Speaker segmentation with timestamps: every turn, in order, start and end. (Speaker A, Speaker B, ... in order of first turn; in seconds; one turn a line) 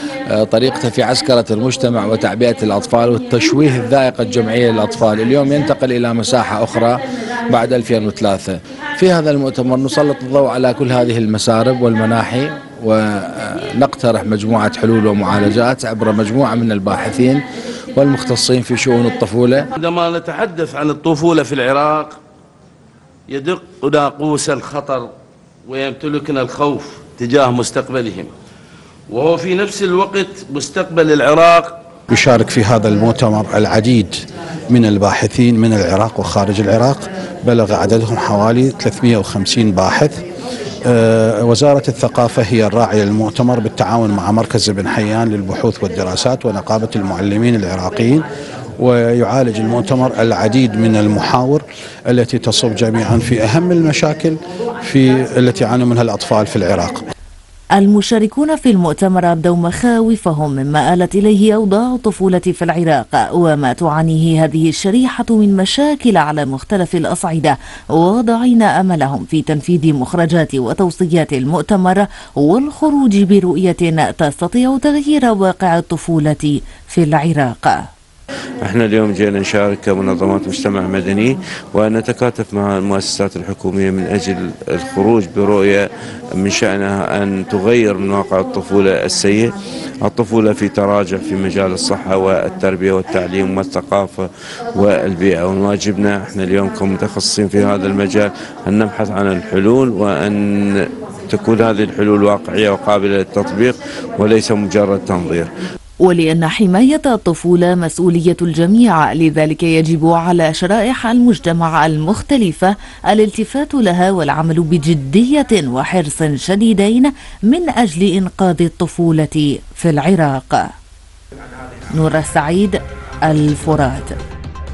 Speaker A: 0.3-19.7
Speaker B: 19.9-21.8
Speaker B: 23.7-25.0
Speaker B: 25.7-27.8
Speaker B: 29.2-31.5
Speaker C: 32.1-40.2
Speaker C: 40.9-48.2
Speaker C: 48.8-57.1
Speaker D: 57.8-77.8
Speaker E: 78.6-85.9
Speaker E: 86.4-105.5
Speaker D: 106.1-120.7
Speaker D: 121.9-124.1